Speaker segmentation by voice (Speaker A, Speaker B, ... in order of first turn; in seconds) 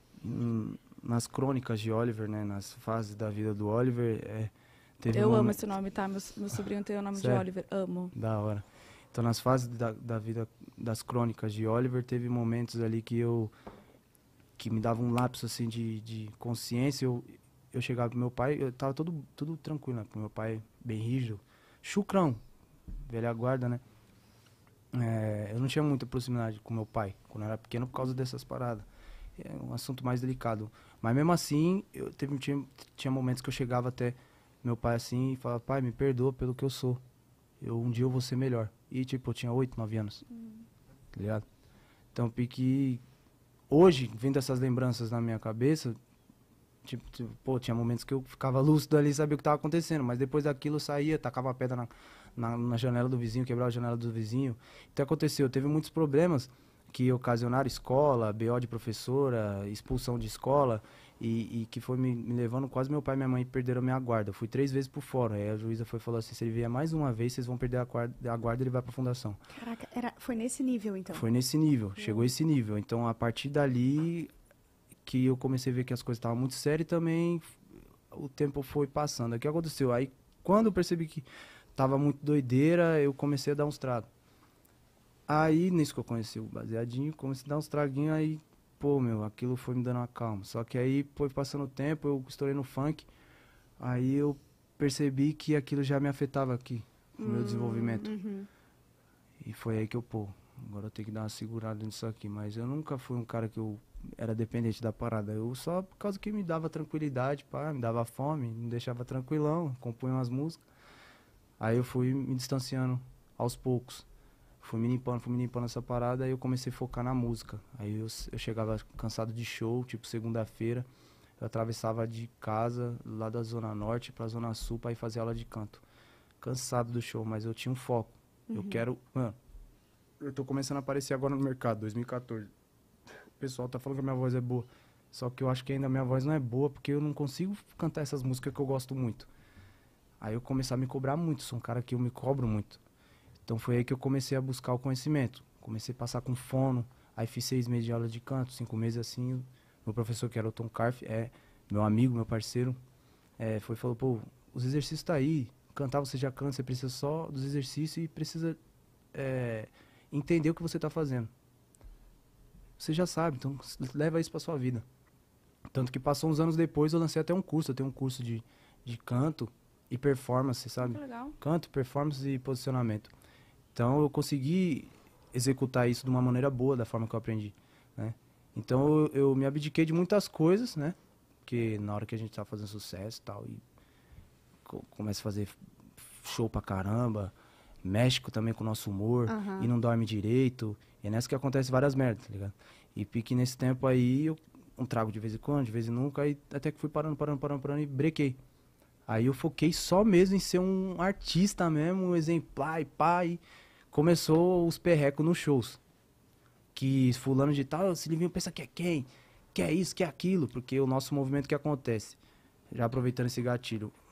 Speaker A: 0.2-5.7, 7.1-7.5, 8.1-13.5, 14.6-22.4, 23.1-23.8, 24.9-37.0, 37.6-40.2, 41.1-41.4, 42.1-43.0, 43.7-46.0, 46.9-69.4, 71.1-74.3, 75.0-77.5, 78.1-84.1, 85.3-93.1, 93.8-98.1, 99.4-110.6, 111.6-114.1, 114.6-120.9, 121.4-125.8, 126.4-129.4, 130.2-132.5, 133.4-139.3, 140.2-142.8, 143.5-152.8, 153.4-158.6, 159.1-161.3, 162.8-164.8, 165.7-173.1, 173.8-183.6, 184.7-198.4, 199.1-205.8, 206.8-212.2, 212.7-213.9
Speaker B: 5.1-8.1, 170.8-171.4
Speaker C: 69.5-71.2, 97.2-98.5, 128.5-128.8, 189.3-189.7